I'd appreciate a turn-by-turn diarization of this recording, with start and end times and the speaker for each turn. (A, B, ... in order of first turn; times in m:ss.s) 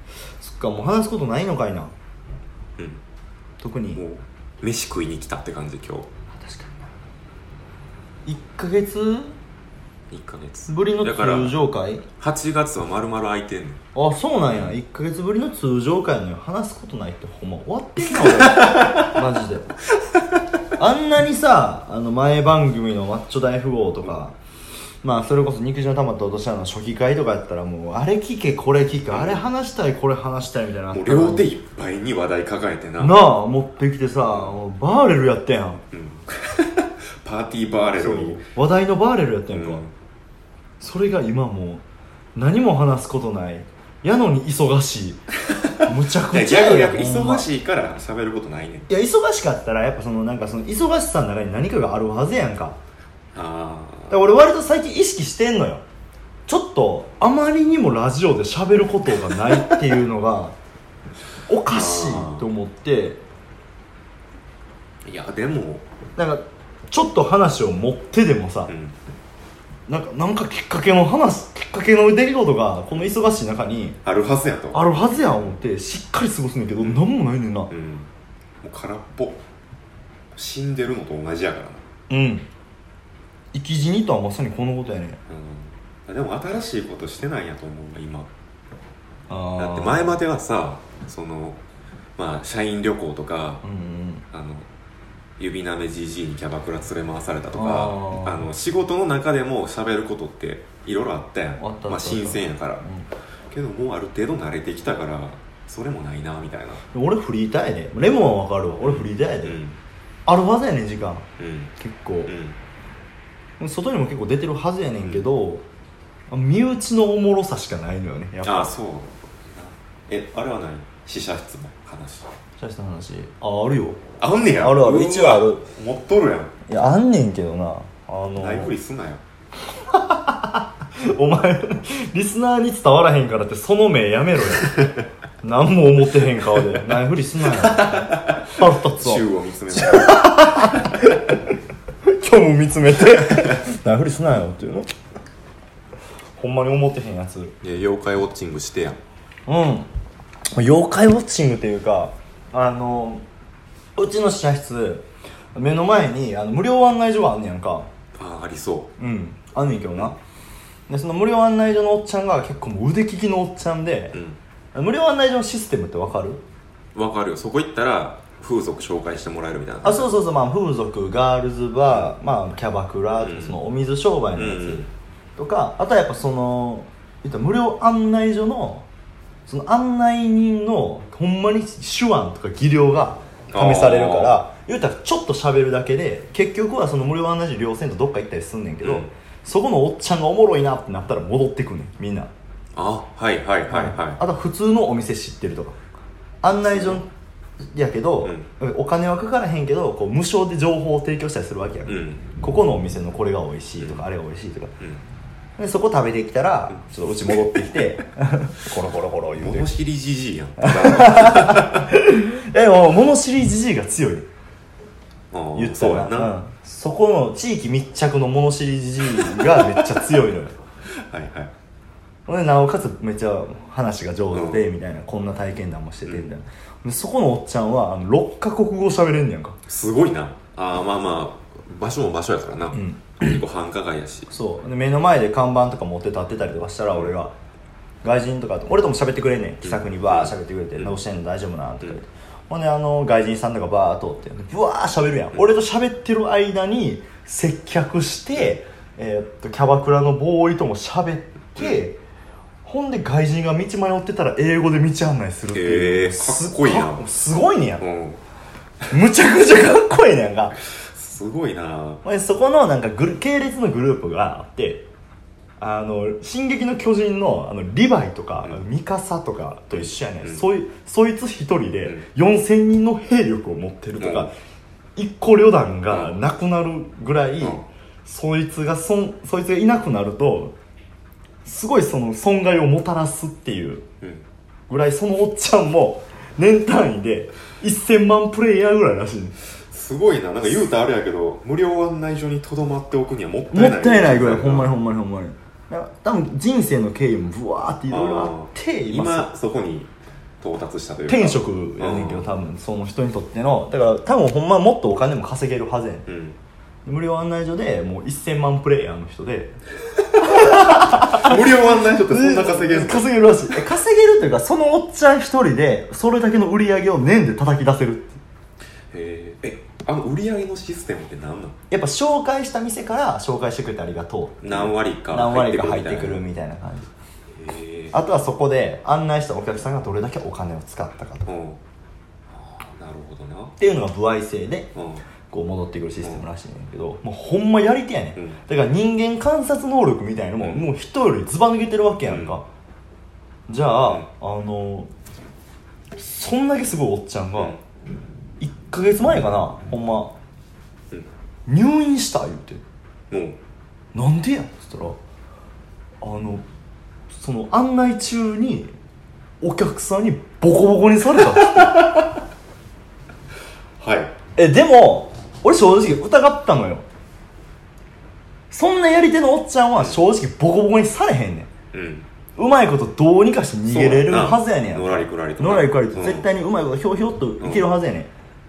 0:00.4-0:01.9 A
0:02.8-0:03.0 B
0:03.6-0:04.0 A
0:04.0-0:06.1 B
0:06.4-0:06.8 A
0:08.2-0:09.4 A
0:10.1-0:11.6 B
0:10.7-0:12.1 A
0:12.2-0:13.8 B
0:14.0-0:19.7 A
0:18.2-0:19.0 B
0:20.8-0:24.4 A
0:25.0-0:31.5 A
0:29.1-0:29.4 B
0:30.9-0:33.2 B
0:33.0-0:35.8 A
0:35.9-0:38.5 B
0:38.0-0:39.8 A
0:39.5-0:39.9 B
0:40.8-0:41.8 A
0:42.4-0:45.2 A
0:45.8-0:47.5 A
0:46.3-0:48.9 B
0:48.9-0:52.8 A
0:53.3-0:54.2 B
0:54.1-0:55.8 A
0:56.5-1:00.6 A
1:01.5-1:03.2 A
1:01.7-1:02.5 B
1:05.0-1:05.8 B
1:06.2-1:08.7 A
1:08.7-1:09.0 B
1:09.9-1:14.0 A
1:14.0-1:14.8 B
1:14.7-1:17.7 A
1:17.7-1:18.1 B
1:18.6-1:19.4 B
1:20.3-1:21.8 B
1:22.1-1:22.5 A
1:23.5-1:25.2 A
1:25.3-1:28.3 B
1:29.3-1:30.2 A
1:29.6-1:31.6 B
1:32.2-1:33.6 B
1:33.6-1:34.2 A
1:34.3-1:34.7 B
1:35.4-1:42.9 B
1:37.5-1:38.5 A
1:41.6-1:43.1 A
1:43.5-1:46.8 B
1:46.9-1:49.6 A
1:48.8-1:49.8 B
1:50.3-1:52.3 A
1:51.4-1:51.7 B
1:52.3-1:52.6 B
1:53.6-1:55.6 A
1:56.3-1:58.7 A
1:58.4-2:02.3 B
2:02.6-2:04.0 A
2:04.2-2:06.5 B
2:04.6-2:05.6 A
2:06.7-2:08.8 A
2:08.4-2:09.2 B
2:09.9-2:14.9 A
2:15.4-2:21.5 A
2:17.5-2:20.2 B
2:22.0-2:24.9 A
2:26.4-2:27.6 A
2:27.6-2:29.0 B
2:29.5-2:29.9 A
2:30.5-2:33.2 A
2:34.0-2:37.9 A
2:38.2-2:38.9 B
2:39.0-2:40.2 A
2:40.9-2:44.2 A
2:44.1-2:44.4 B
2:44.7-2:46.4 A
2:46.9-2:50.1 B
2:49.8-2:58.9 A
2:51.9-2:52.2 B
2:53.2-2:53.6 B
2:54.4-2:54.9 B
2:59.5-3:12.3 A
3:03.5-3:04.4 B
3:08.8-3:09.1 B
3:12.8-3:14.2 B
3:13.7-3:15.8 A
3:16.4-3:17.1 A
3:16.7-3:17.0 B
3:17.7-3:24.7 A
3:21.9-3:22.3 B
3:23.8-3:24.0 B
3:25.6-3:29.7 A
3:26.7-3:27.6 B
3:29.4-3:31.9 B
3:30.6-3:34.3 A
3:35.3-3:36.4 B
3:35.6-3:40.6 A
3:39.4-3:39.8 B
3:40.9-3:41.5 B
3:42.3-3:49.6 A
3:44.3-3:44.7 B
3:49.7-3:54.3 B
3:52.7-3:53.2 A
3:54.3-3:57.3 A
3:58.0-4:12.0 A
3:59.6-4:01.0 B
4:12.6-4:17.8 A
4:15.5-4:17.1 B
4:17.8-4:18.2 B
4:18.9-4:20.6 A
4:20.6-4:22.0 B
4:22.0-4:24.9 A
4:25.6-4:34.4 A
4:29.7-4:30.4 B
4:34.0-4:34.3 B
4:35.0-4:40.6 A
4:35.9-4:36.2 B
4:41.4-4:43.9 A
4:44.7-4:49.4 A
4:49.7-4:54.8 B
4:53.5-4:59.3 A
4:57.9-5:02.3 B
5:01.1-5:06.1 A
5:06.1-5:06.4 B
5:06.8-5:09.6 A
5:10.2-5:18.2 A
5:10.4-5:13.1 B
5:18.9-5:21.6 B
5:21.7-5:26.9 A
5:24.4-5:26.2 B
5:27.3-5:28.0 B
5:27.9-5:31.3 A
5:31.3-5:31.6 B
5:32.3-5:33.6 B
5:33.6-5:34.7 A
5:34.8-5:35.0 B
5:35.3-5:42.4 A
5:40.4-5:40.7 B
5:42.1-5:42.4 B
5:43.5-5:44.9 A
5:46.0-5:47.6 A
5:47.4-5:47.6 B
5:48.4-5:50.2 A
5:51.5-5:52.6 A
5:53.1-5:53.4 B
5:53.9-5:55.0 A
5:56.0-5:56.4 A
5:57.1-5:58.7 A
5:59.4-6:02.0 A
6:01.6-6:02.0 B
6:03.8-6:04.1 B
6:04.4-6:06.8 A
6:08.5-6:11.5 A
6:11.7-6:12.1 B
6:12.4-6:18.1 A
6:13.7-6:16.3 B
6:17.4-6:17.7 B